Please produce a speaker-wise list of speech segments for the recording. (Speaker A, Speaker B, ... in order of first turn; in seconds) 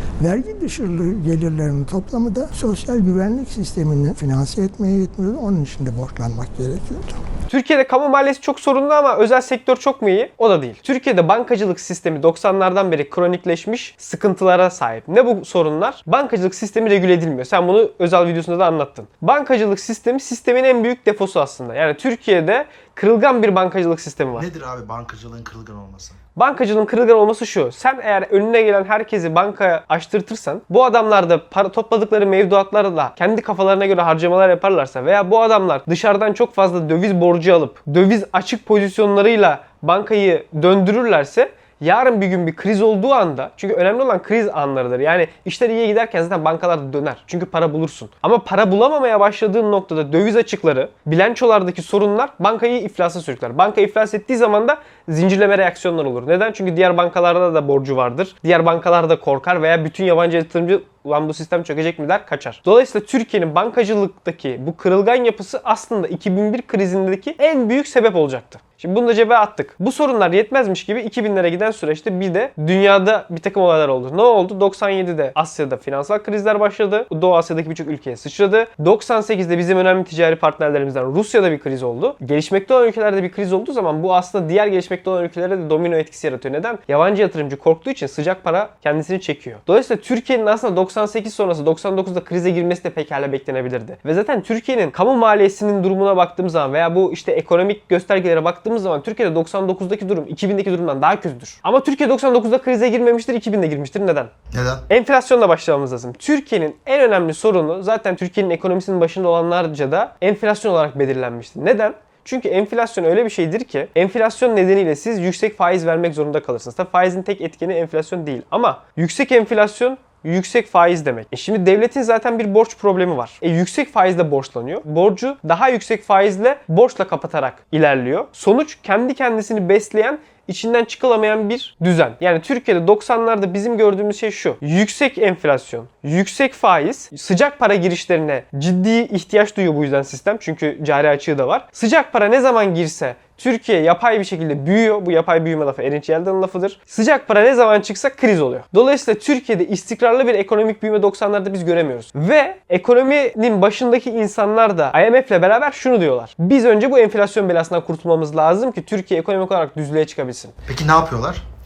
Speaker A: 0.2-7.2
Speaker B: 7.5-24.5, 26.3-104.3, 104.9-160.5
Speaker C: 24.3-26.2, 104.5-104.8, 160.7-161.4